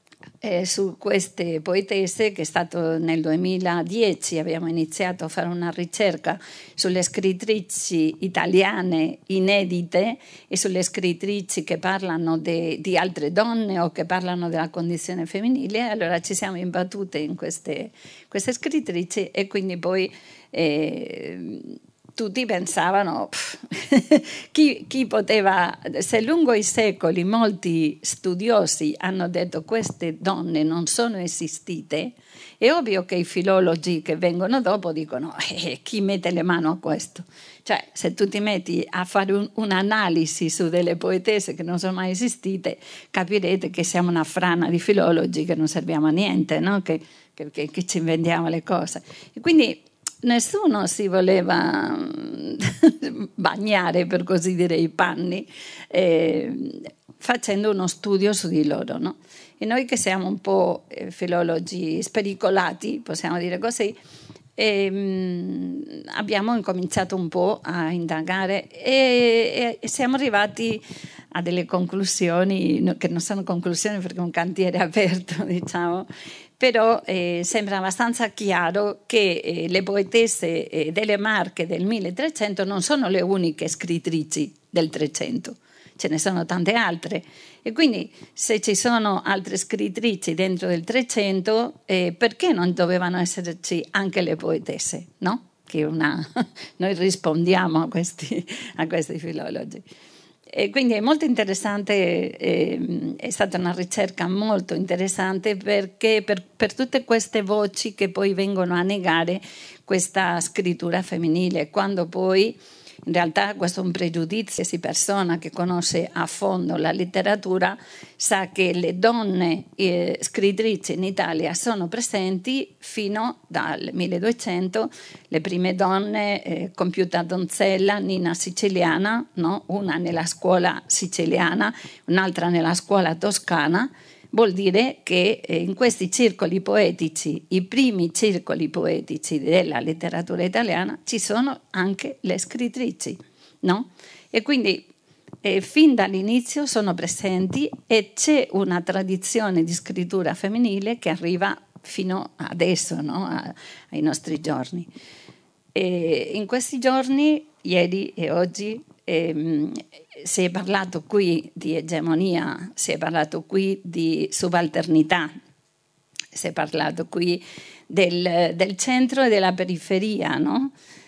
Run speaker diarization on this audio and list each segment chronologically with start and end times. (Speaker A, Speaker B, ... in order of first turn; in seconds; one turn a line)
Speaker A: 0.4-64.0
Speaker A: 64.6-99.8
Speaker A: 100.5-144.9
Speaker A: 145.4-154.9
Speaker A: 155.8-165.3
Speaker A: 166.3-170.7